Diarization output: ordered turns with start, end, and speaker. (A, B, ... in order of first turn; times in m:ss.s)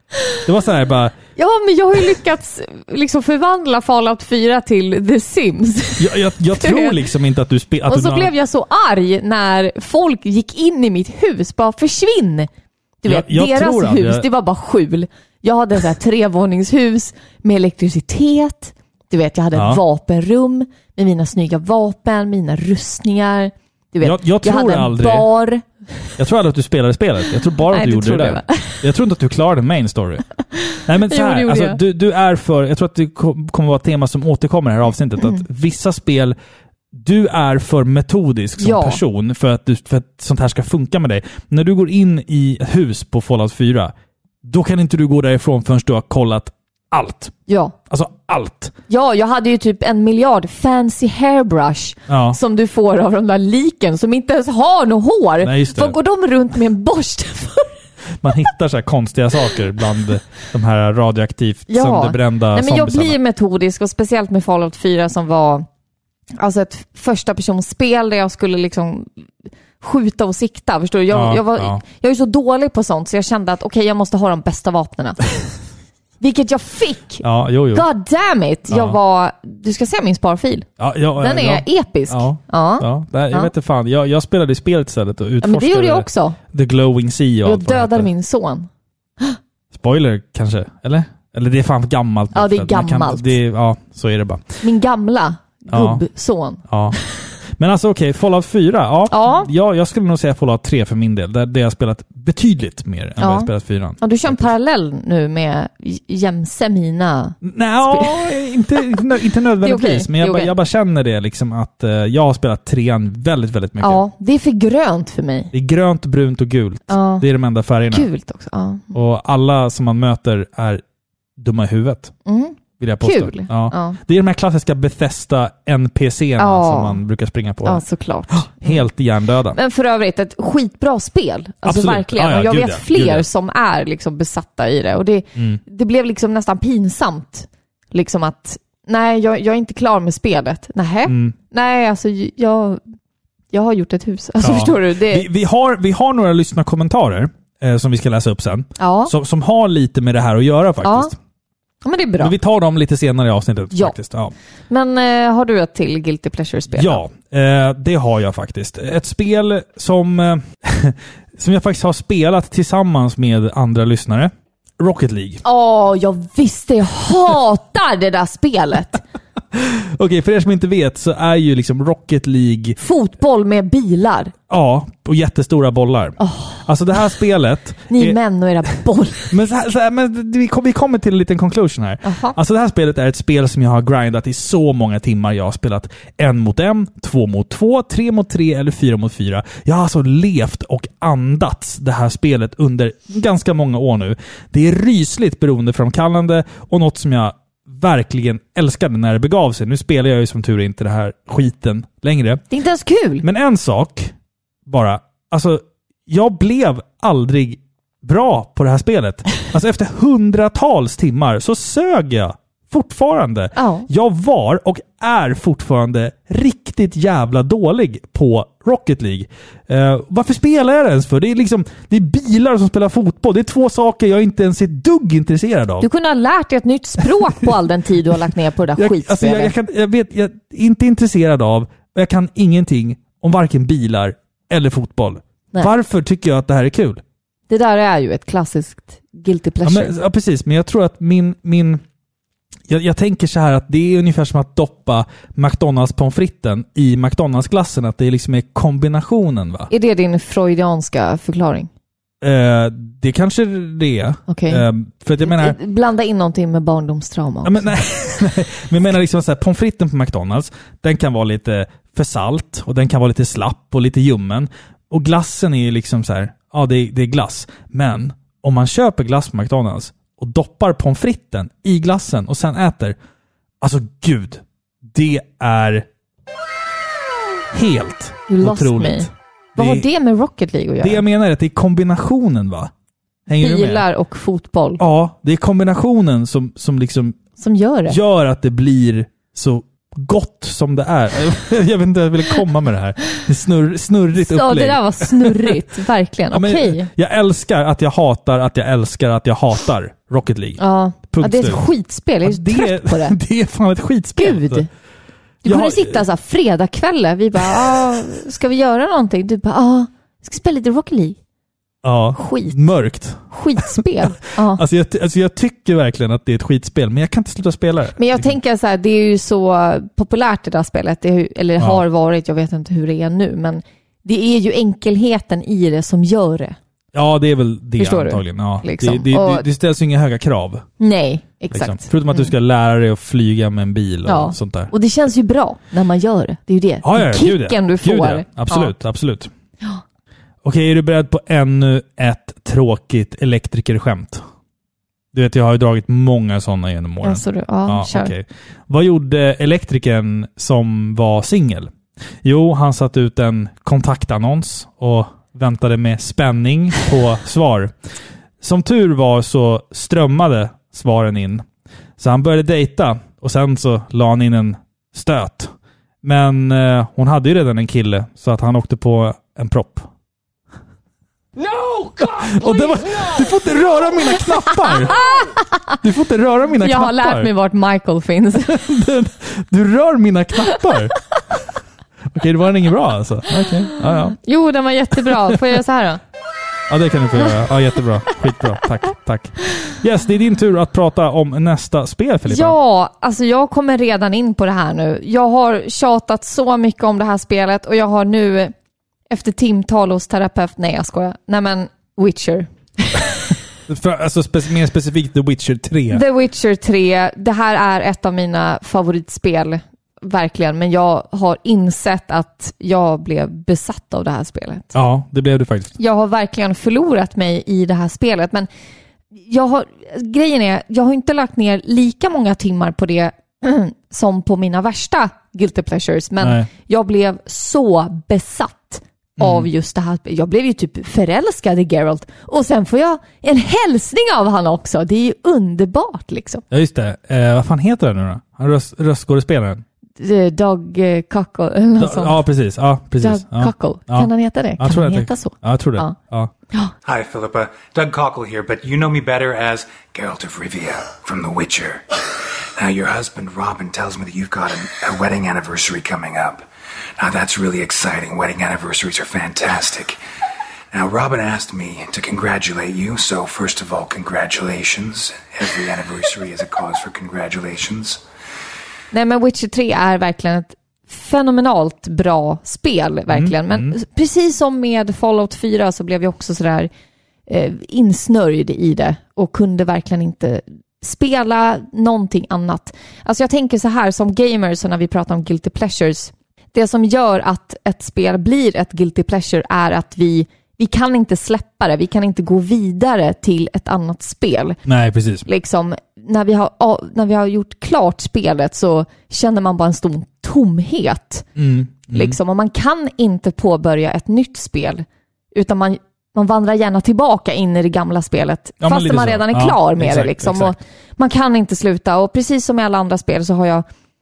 0:00.4-0:01.2 A
0:01.4-0:07.0 B
0:06.0-0:08.3 A
0:07.9-0:12.5 B
0:13.0-0:25.7 B
0:13.1-0:14.3 A
0:19.5-0:19.8 A
0:24.0-0:25.3 A
0:26.2-0:30.2 A
0:27.7-0:28.9 B
0:30.6-0:31.8 B
0:30.8-0:36.4 A
0:36.9-0:43.9 A
0:38.6-0:39.0 B
0:44.4-0:47.3 A
0:47.5-0:47.8 B
0:47.9-0:48.7 A
0:48.9-0:57.8 B
0:52.1-0:52.4 A
0:55.4-0:56.0 A
0:58.2-1:03.2 A
1:01.7-1:05.7 B
1:06.4-1:09.2 B
1:09.8-1:15.2 B
1:11.1-1:11.8 A
1:16.2-1:20.7 B
1:17.2-1:17.8 A
1:18.7-1:19.0 A
1:20.8-1:28.1 A
1:21.2-1:23.5 B
1:25.4-1:26.4 B
1:27.4-1:28.7 B
1:29.7-1:34.6 A
1:32.3-1:33.4 B
1:34.6-1:36.6 B
1:35.7-1:36.0 A
1:36.7-1:37.0 A
1:37.6-1:44.5 A
1:39.1-1:39.5 B
1:43.2-1:48.3 B
1:47.4-1:54.0 A
1:49.6-1:50.5 B
1:53.8-1:55.5 B
1:55.5-1:58.1 A
1:56.9-1:57.2 B
1:57.9-1:58.9 B
1:58.9-2:00.8 A
2:01.4-2:02.1 A
2:02.3-2:04.0 B
2:02.8-2:09.6 A
2:06.4-2:07.0 B
2:07.6-2:08.9 B
2:09.5-2:22.8 B
2:11.6-2:13.3 A
2:21.1-2:21.3 A
2:23.5-2:25.3 B
2:24.4-2:31.2 A
2:28.8-2:29.1 B
2:30.8-2:31.1 B
2:31.8-2:32.3 B
2:32.2-2:34.3 A
2:34.7-2:37.0 B
2:36.8-2:45.4 A
2:45.4-2:49.0 B
2:49.5-2:52.8 A
2:52.8-2:54.3 B
2:54.5-2:58.2 A
2:56.2-2:56.6 B
2:57.9-2:59.4 B
2:59.3-3:22.4 A
3:02.0-3:02.4 B
3:22.5-3:23.2 B
3:23.2-3:24.1 A
3:24.7-3:45.9 A
3:33.6-3:33.9 B
3:45.8-3:49.5 B
3:48.8-3:57.0 A
3:57.5-3:59.9 B
3:59.6-4:01.8 A
4:02.7-4:09.7 A
4:09.7-4:11.7 B
4:12.2-4:15.6 A
4:14.3-4:14.6 B
4:15.2-4:17.8 B
4:17.4-4:33.0 A
4:33.6-4:35.9 A
4:37.5-4:39.9 A
4:38.3-4:41.0 B
4:40.8-4:42.7 A
4:43.3-4:43.8 A
4:43.4-4:44.8 B
4:44.8-4:47.2 A
4:47.4-4:48.0 B
4:47.9-4:55.6 A
4:54.2-4:56.9 B
4:56.3-5:01.6 A
5:00.6-5:03.2 B
5:02.2-5:04.7 A
5:04.2-5:04.7 B
5:05.4-5:11.2 B
5:05.4-5:06.0 A
5:11.8-5:13.9 A
5:12.2-5:12.6 B
5:13.3-5:14.6 B
5:14.5-5:18.3 A
5:18.0-5:26.6 B
5:26.9-5:30.6 A
5:27.8-5:29.5 B
5:30.8-5:32.3 B
5:31.5-5:34.7 A
5:34.1-5:38.7 B
5:36.8-5:39.3 A
5:40.4-5:44.2 A
5:45.1-5:51.7 A
5:47.0-5:48.1 B
5:52.2-5:57.8 A
5:58.4-6:01.4 A
6:02.0-6:05.5 A
6:06.0-6:09.9 A
6:11.4-6:13.5 C
6:12.2-6:15.0 A
6:14.6-6:15.8 B
6:15.8-6:17.3 A
6:16.6-6:18.6 B
6:18.4-6:21.0 A
6:22.1-6:24.2 A
6:23.4-6:26.0 B
6:25.0-6:25.4 A
6:26.7-6:32.6 A
6:32.3-6:38.5 B
6:39.1-6:43.2 B
6:43.7-6:46.0 A
6:45.9-6:54.7 B
6:54.7-6:55.8 A
6:55.8-6:58.5 B
6:59.1-7:16.4 B
7:06.2-7:06.5 A
7:09.2-7:09.5 A
7:16.5-7:19.6 A
7:20.0-7:22.2 B
7:21.8-7:26.3 A
7:23.0-7:26.0 B
7:26.8-7:36.4 D
7:37.0-7:40.0 D
7:40.7-7:48.0 D
7:48.9-7:56.7 B
7:53.1-7:53.8 A
7:57.3-8:14.6 B
8:14.7-8:15.3 A
8:15.3-8:21.3 B
8:21.4-8:22.2 A
8:21.9-8:33.6 B
8:28.6-8:30.6 A